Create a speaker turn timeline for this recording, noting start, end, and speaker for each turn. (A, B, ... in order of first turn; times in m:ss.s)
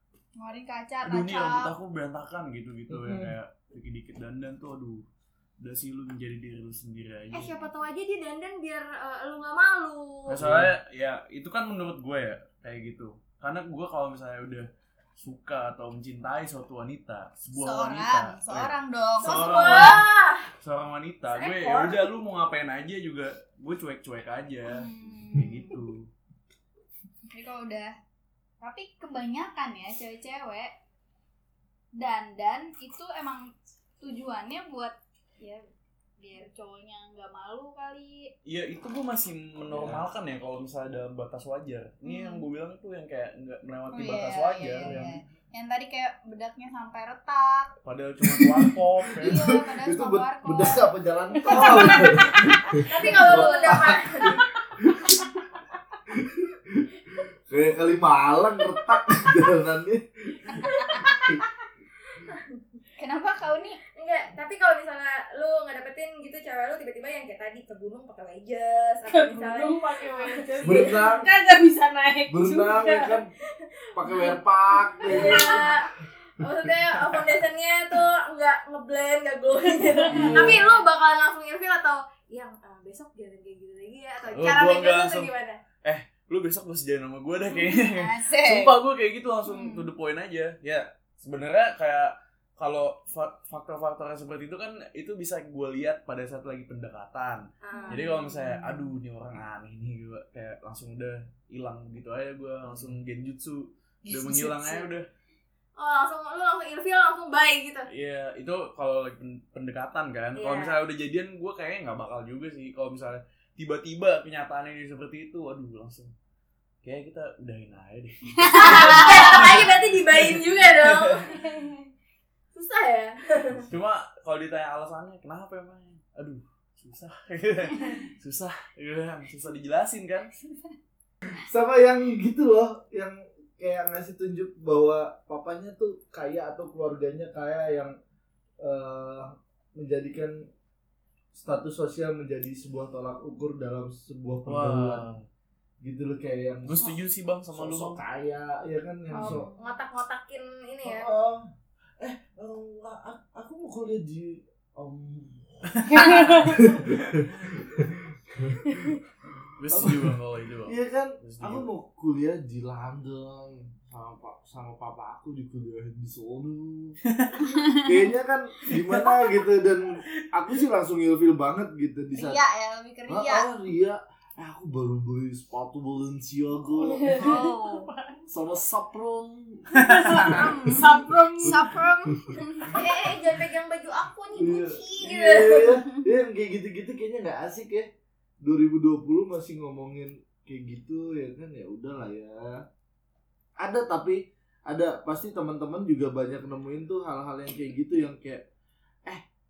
0:00.4-0:01.7 A
0:01.0-0:05.0 B
0:02.9-0:03.3 C
0:05.6-0:07.6 B
0:07.3-0:10.4 D
0:10.3-0:14.7 B
0:10.4-0:10.7 C
0:15.2-0:20.1 B
0:17.6-0:20.0 A
0:19.2-0:20.5 D
0:20.6-0:26.1 B
0:21.3-0:22.0 D
0:24.6-0:25.8 A
0:27.3-0:28.0 A
0:28.6-0:30.7 A
0:31.9-0:35.6 A
0:36.2-0:38.3 A
0:38.4-0:45.2 B
0:39.7-0:40.1 C
0:42.0-0:42.5 A
0:43.9-0:47.8 A
0:44.8-0:45.1 C
0:47.8-0:49.6 B
0:48.3-0:55.5 C
0:49.2-0:50.9 A
0:51.4-0:53.8 A
0:52.8-0:54.5 D
0:56.1-1:01.4 C
1:00.6-1:01.2 A
1:03.0-1:03.8 A
1:04.0-1:11.0 D
1:09.1-1:13.2 E
1:10.6-1:11.3 C
1:12.3-1:13.3 C
1:13.9-1:15.8 C
1:15.0-1:15.9 D
1:15.2-1:15.6 E
1:16.4-1:25.6 D
1:19.8-1:20.5 E
1:20.1-1:20.6 C
1:20.4-1:20.8 A
1:24.3-1:25.3 B
1:25.8-1:45.1 B
1:27.5-1:28.8 A
1:29.5-1:29.9 A
1:37.6-1:38.1 D
1:37.7-1:38.9 A
1:45.8-1:47.9 D
1:47.9-1:56.1 B
1:50.4-1:50.8 D
1:56.8-2:01.2 B
1:58.4-1:59.2 A
1:58.5-2:01.7 D
2:02.5-2:03.7 D
2:03.7-2:10.4 B
2:11.3-2:18.0 C
2:18.6-2:20.5 C
2:21.3-2:25.1 C
2:24.5-2:25.2 B
2:25.8-2:26.9 C
2:26.6-2:28.0 B
2:27.5-2:29.5 C
2:29.1-2:29.7 E
2:29.6-2:31.1 D
2:30.8-2:31.5 C
2:32.0-2:39.0 C
2:35.7-2:37.4 B
2:36.0-2:36.6 E
2:39.6-2:41.7 B
2:39.7-2:52.4 C
2:47.1-2:47.4 B
2:47.6-2:47.9 A
2:52.1-2:53.5 A
2:53.1-2:57.2 C
2:56.8-2:58.2 E
2:57.1-2:57.9 A
2:58.3-3:00.8 C
2:59.9-3:00.2 B
2:59.9-3:01.7 E
3:00.2-3:02.7 A
3:01.4-3:02.4 C
3:02.7-3:05.8 D
3:04.4-3:07.9 C
3:08.4-3:12.6 C
3:13.6-3:18.5 C